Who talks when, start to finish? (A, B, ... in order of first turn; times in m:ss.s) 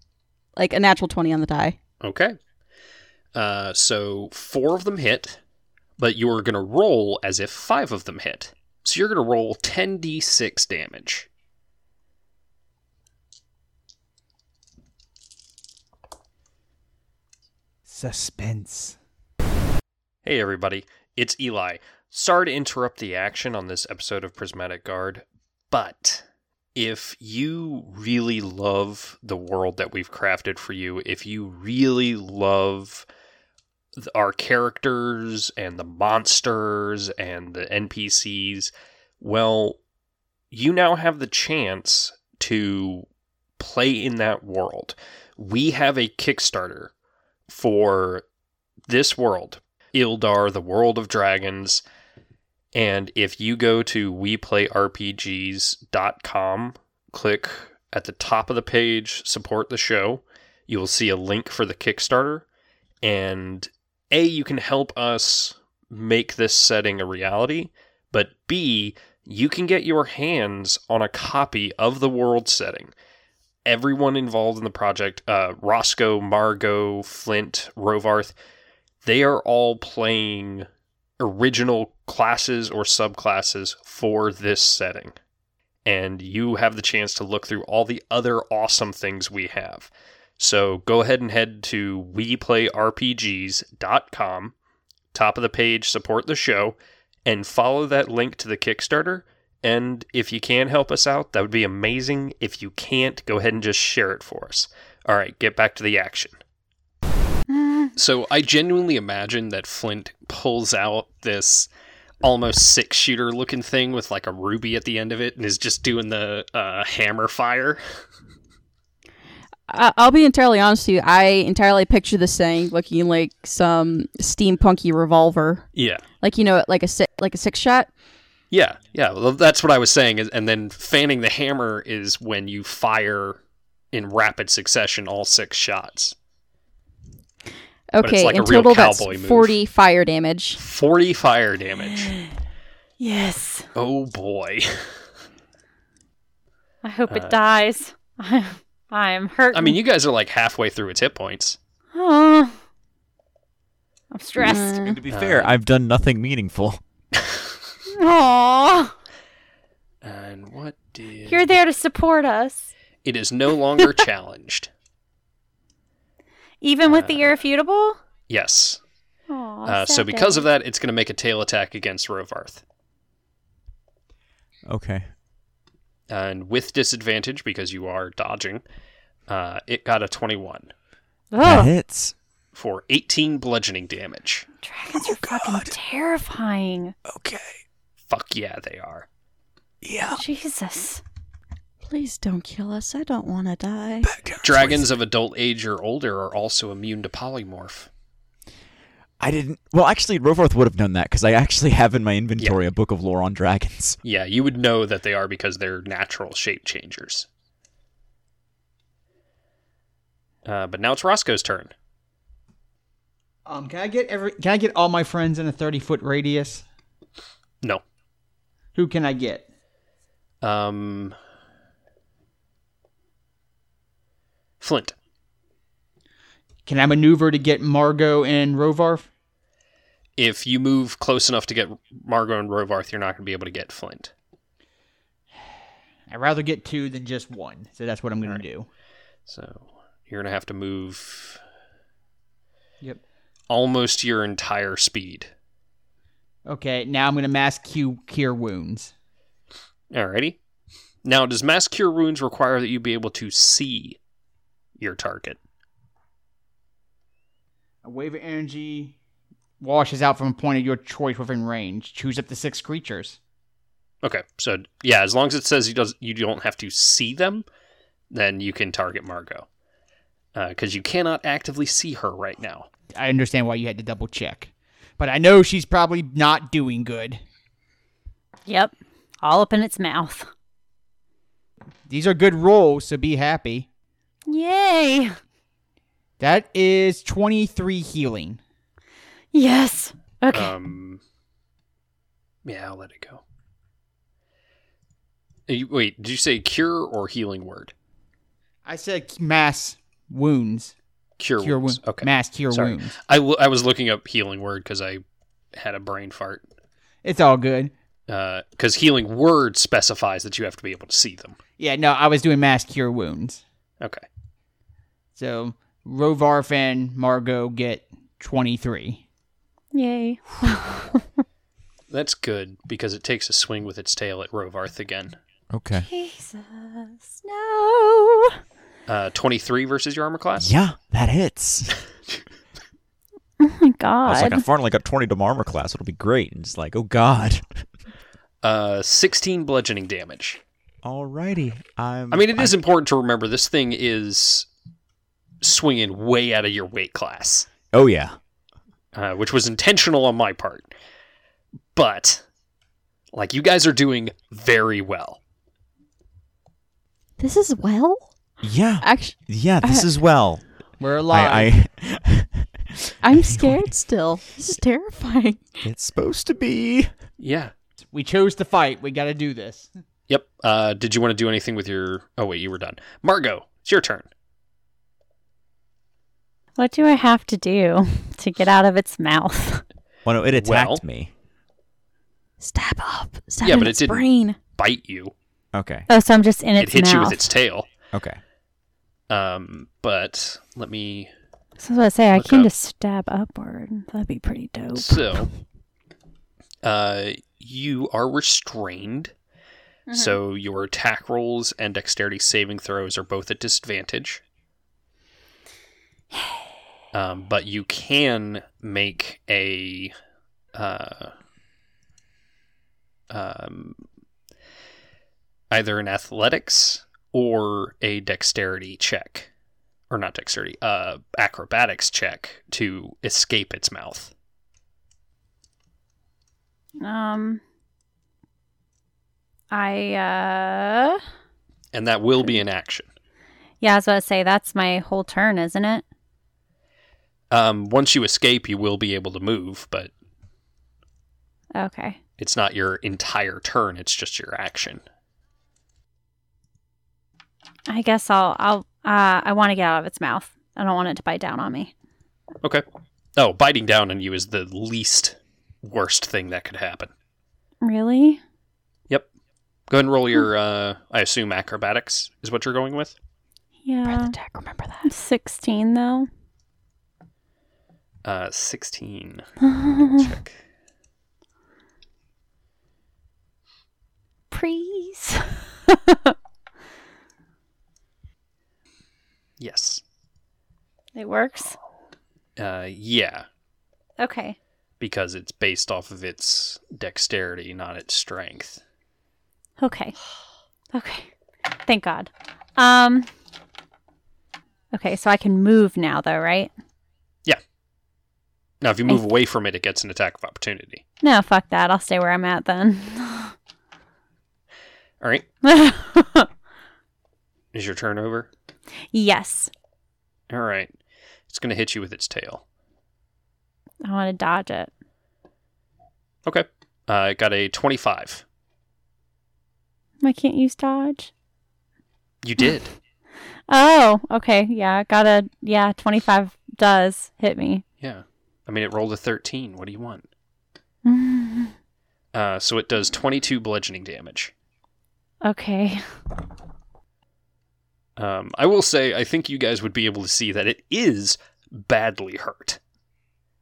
0:00.6-0:01.8 A
0:02.0-0:02.4 B
0:03.3-0:05.4 B
0:06.0-0:11.3 B
0:17.9-0:19.0 C
0:20.2-0:33.1 B
0:34.0-0:39.8 B
0:40.5-0:43.1 B
0:43.6-0:46.9 B
0:47.5-0:48.2 B
0:48.9-0:51.8 B
0:52.7-1:02.5 B
1:03.0-1:12.9 B
1:13.7-1:18.3 B
1:19.0-1:20.7 B
1:21.2-1:25.1 B
1:25.8-1:34.6 B
1:35.1-1:46.4 B
1:47.5-1:47.9 D
1:48.0-1:51.7 B
1:52.2-1:57.8 B
1:59.7-2:05.7 A
2:05.8-2:06.0 B
2:06.2-2:07.9 A
2:08.5-2:13.4 B
2:13.9-2:16.2 B
2:17.9-2:20.6 A
2:18.0-2:19.6 B
2:20.6-2:22.2 B
2:21.9-2:22.3 D
2:23.0-2:23.7 D
2:23.8-2:25.0 B
2:26.8-2:29.8 D
2:27.1-2:27.4 B
2:29.5-2:31.6 B
2:31.9-2:32.6 D
2:34.1-2:35.0 D
2:34.4-2:35.0 A
2:34.8-2:36.8 E
2:35.1-2:35.6 B
2:37.2-2:37.6 B
2:37.9-2:38.9 D
2:40.0-2:41.5 B
2:41.3-2:42.7 D
2:43.0-2:44.7 B
2:46.6-2:48.0 D
2:46.9-2:47.4 B
2:48.3-2:48.8 B
2:49.3-2:50.5 D
2:49.7-2:52.6 B
2:54.7-2:55.0 E
2:56.1-2:58.6 B
2:59.3-3:00.7 B
3:01.3-3:01.7 D
3:01.4-3:02.2 E
3:02.5-3:04.5 B
3:04.6-3:07.0 D
3:04.9-3:05.7 E
3:07.1-3:07.6 E
3:08.1-3:09.1 B
3:09.8-3:10.2 E
3:10.2-3:11.0 D
3:11.8-3:14.1 A
3:14.0-3:14.9 E
3:14.4-3:17.9 B
3:19.2-3:24.0 E
3:24.0-3:27.3 B
3:30.4-3:31.7 B
3:33.5-3:36.6 C
3:38.8-3:39.5 C
3:40.4-3:41.2 B
3:44.6-3:45.0 B
3:46.7-3:49.1 C
3:50.2-3:54.1 B
3:56.1-3:58.7 C
3:59.3-4:01.4 B
4:03.5-4:05.3 B
4:06.5-4:08.9 C
4:09.9-4:10.4 B
4:11.0-4:14.0 B
4:14.8-4:15.4 B
4:17.8-4:19.0 C
4:19.6-4:23.2 C
4:24.0-4:27.5 B
4:28.1-4:29.5 B
4:30.4-4:32.7 B
4:33.0-4:37.2 C
4:38.5-4:40.3 D
4:41.9-4:43.7 C
4:44.3-4:45.2 D
4:46.2-4:48.4 C
4:49.3-4:50.5 D
4:50.3-4:51.0 B
4:52.4-4:53.2 B
4:55.5-4:57.7 B
4:58.6-5:00.8 C
5:01.2-5:05.0 B
5:01.4-5:03.0 C
5:05.6-5:06.4 B
5:07.0-5:07.7 C
5:08.1-5:11.4 B
5:11.6-5:13.4 C
5:15.2-5:19.0 C
5:19.7-5:21.0 D
5:21.9-5:25.2 B
5:25.5-5:25.9 E
5:25.8-5:28.4 D
5:28.9-5:30.5 B
5:30.4-5:31.8 E
5:33.4-5:34.4 D
5:34.0-5:37.6 E
5:38.4-5:40.4 B
5:40.8-5:42.6 E
5:42.1-5:44.5 B
5:45.4-5:47.5 B
5:47.7-5:48.2 E
5:48.9-5:50.7 B
5:51.8-5:52.2 B
5:53.1-5:55.2 B
5:57.2-5:58.1 A
5:58.4-6:00.4 E
5:58.8-5:59.9 A
6:00.8-6:01.5 C
6:01.1-6:03.7 E
6:03.0-6:05.6 A
6:05.6-6:06.9 E
6:07.2-6:07.5 B
6:07.9-6:09.7 C
6:10.1-6:14.1 B
6:16.6-6:19.6 D
6:20.1-6:21.1 E
6:20.4-6:20.8 B
6:22.4-6:24.4 A
6:23.4-6:25.1 B
6:25.5-6:25.9 E
6:25.9-6:27.3 D
6:26.6-6:27.7 B
6:27.9-6:28.2 E
6:29.1-6:31.1 B
6:31.6-6:35.2 D
6:32.1-6:32.5 B
6:34.7-6:35.3 B
6:36.6-6:39.1 B
6:39.9-6:40.2 D
6:39.9-6:44.2 B
6:46.9-6:49.9 B
6:50.6-6:51.1 B
6:53.1-6:53.8 B
6:55.5-6:59.3 B
6:59.9-7:04.1 B
7:06.8-7:07.4 D
7:09.5-7:11.0 D
7:11.7-7:12.9 B
7:13.6-7:15.8 D
7:17.3-7:19.9 B
7:21.6-7:22.0 D
7:22.2-7:24.8 B
7:27.7-7:31.7 D
7:33.2-7:36.9 B
7:37.6-7:38.2 D
7:39.7-7:43.0 B
7:43.6-7:44.2 D
7:43.9-7:44.9 A
7:44.8-7:46.1 D
7:48.0-7:50.4 B
7:49.4-7:50.1 D
7:54.3-7:56.1 D
7:59.4-7:59.8 B
8:01.0-8:01.6 D
8:02.4-8:03.3 B
8:04.0-8:04.4 D
8:04.8-8:08.6 B
8:09.6-8:10.0 D
8:10.7-8:11.1 D
8:11.6-8:13.1 D
8:14.7-8:16.5 D
8:18.6-8:20.8 B
8:21.0-8:23.3 D
8:25.0-8:25.3 B
8:25.4-8:26.3 D
8:27.5-8:28.3 B
8:28.9-8:29.5 D
8:30.3-8:30.7 B
8:31.3-8:32.4 B
8:33.8-8:34.7 D
8:36.3-8:38.2 B
8:40.0-8:41.1 D
8:42.2-8:42.7 B
8:43.5-8:47.6 D
8:47.8-8:50.1 B
8:50.8-8:51.5 D
8:52.1-8:54.3 B
8:55.2-8:55.9 D
8:58.0-9:02.6 B